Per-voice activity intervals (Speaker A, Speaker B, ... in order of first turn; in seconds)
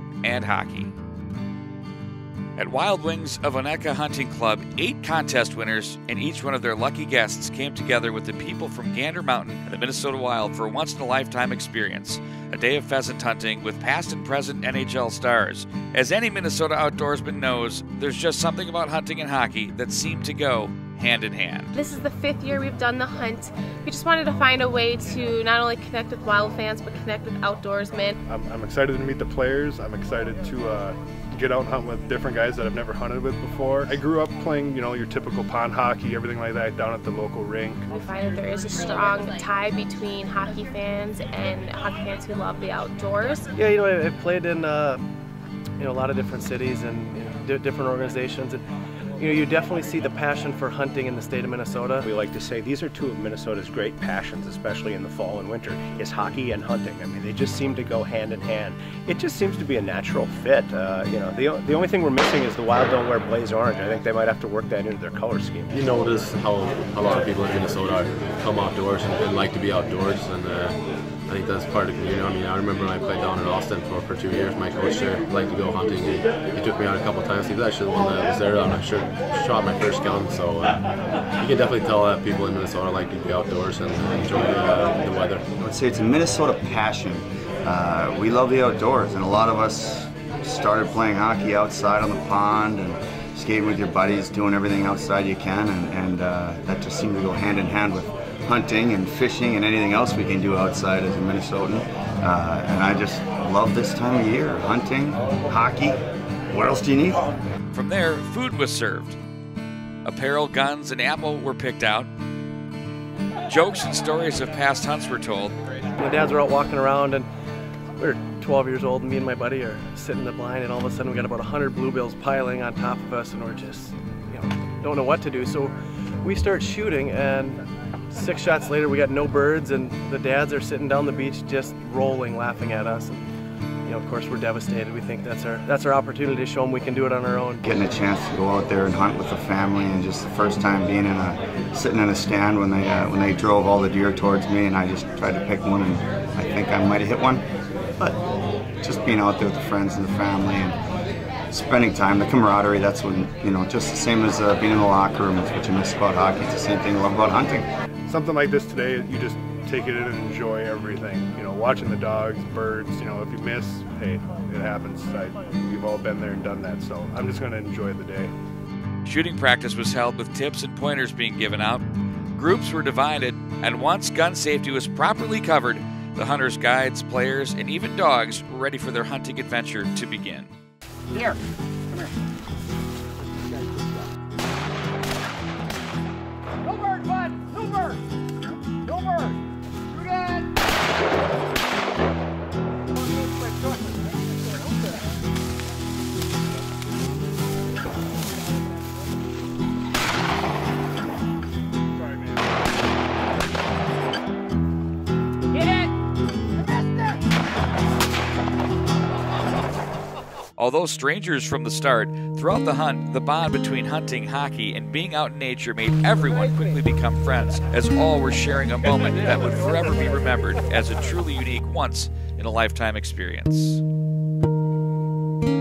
Speaker A: 0.2-0.9, 2.6-21.8, 107.7-109.2, 110.0-112.1, 113.5-115.5, 169.1-171.8, 172.4-180.5, 210.6-223.8
Speaker B: 21.8-28.1, 37.9-43.5
Speaker C: 28.3-37.9, 158.1-168.3
Speaker D: 43.5-45.0, 45.8-48.6, 49.2-52.1, 116.0-117.3, 118.0-127.6, 128.1-133.2, 133.9-137.6
Speaker E: 52.0-65.8
Speaker F: 65.7-80.8, 81.4-85.4
Speaker G: 85.6-106.0, 106.5-107.3, 137.6-147.4, 148.8-150.8, 151.5-157.7